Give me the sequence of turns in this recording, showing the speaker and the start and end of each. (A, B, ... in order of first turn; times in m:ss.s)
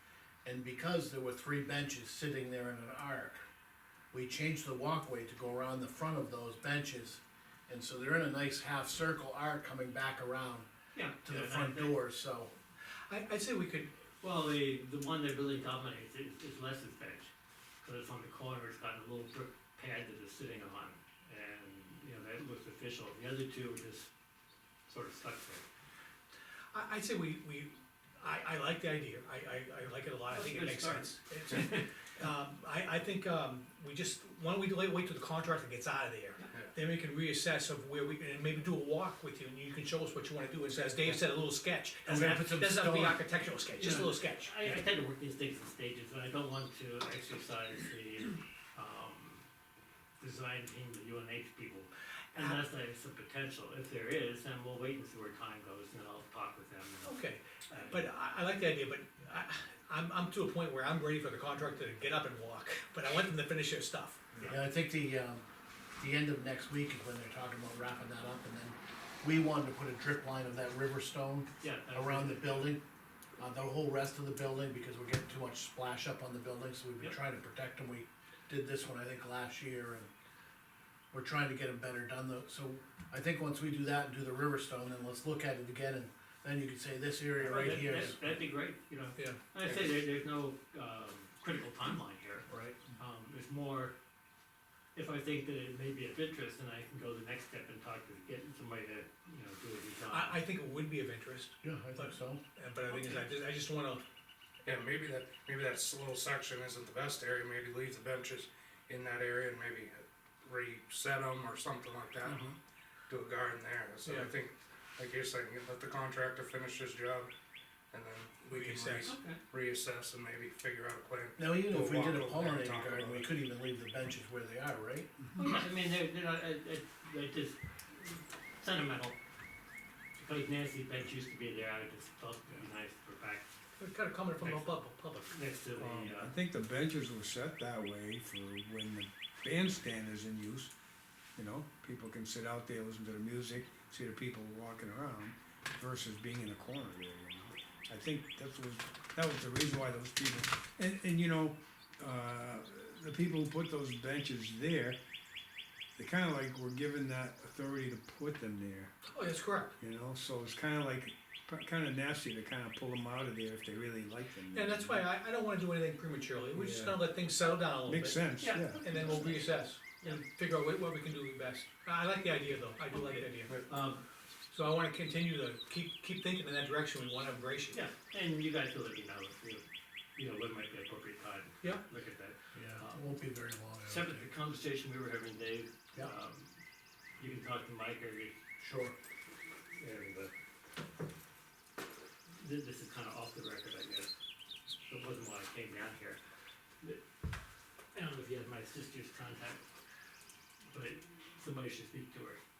0:00.4-0:03.4 A
0:04.1-0:10.7 A
0:10.9-0:12.0 B
0:11.2-0:12.5 A
0:13.1-0:13.9 C
0:14.2-0:17.3 B
0:17.8-0:24.1 B
0:24.9-0:25.6 B
0:26.7-0:44.8 C
0:30.3-0:31.9 B
0:36.4-0:36.7 D
0:42.0-0:43.2 A
0:43.7-0:49.4 B
0:50.2-0:58.1 B
0:52.3-0:52.6 C
0:57.0-1:04.2 C
1:04.3-1:04.6 B
1:04.4-1:05.4 A
1:06.0-1:12.8 A
1:11.6-1:12.8 B
1:13.4-1:20.1 A
1:21.1-1:28.2 A
1:27.4-1:33.9 B
1:32.5-1:32.8 A
1:34.9-1:40.4 B
1:40.1-1:44.0 C
1:41.6-1:42.4 A
1:42.9-1:43.2 B
1:44.6-1:52.5 D
1:52.2-1:52.6 B
1:53.1-1:57.3 D
1:57.9-2:03.3 D
1:58.5-1:59.1 C
1:59.0-1:59.4 B
2:01.4-2:05.1 A
2:05.4-2:09.2 B
2:10.2-2:13.4 B
2:13.8-2:15.3 C
2:14.4-2:16.3 B
2:15.8-2:20.7 E
2:21.4-2:35.0 E
2:36.0-2:39.0 E
2:39.0-2:39.8 C
2:39.8-2:45.1 E
2:44.5-2:53.6 C
2:46.5-2:47.2 E
2:47.8-2:49.1 E
2:48.4-2:50.2 B
2:53.0-2:54.0 B
2:53.4-2:53.9 D
2:54.5-2:57.8 C
2:57.7-2:59.6 B
3:00.2-3:03.2 B
3:02.5-3:04.3 A
3:03.8-3:06.5 B
3:07.2-3:08.3 B
3:08.6-3:08.9 A
3:09.7-3:10.3 B
3:12.4-3:14.1 B
3:14.9-3:16.2 B
3:17.9-3:19.6 B
3:20.7-3:22.4 B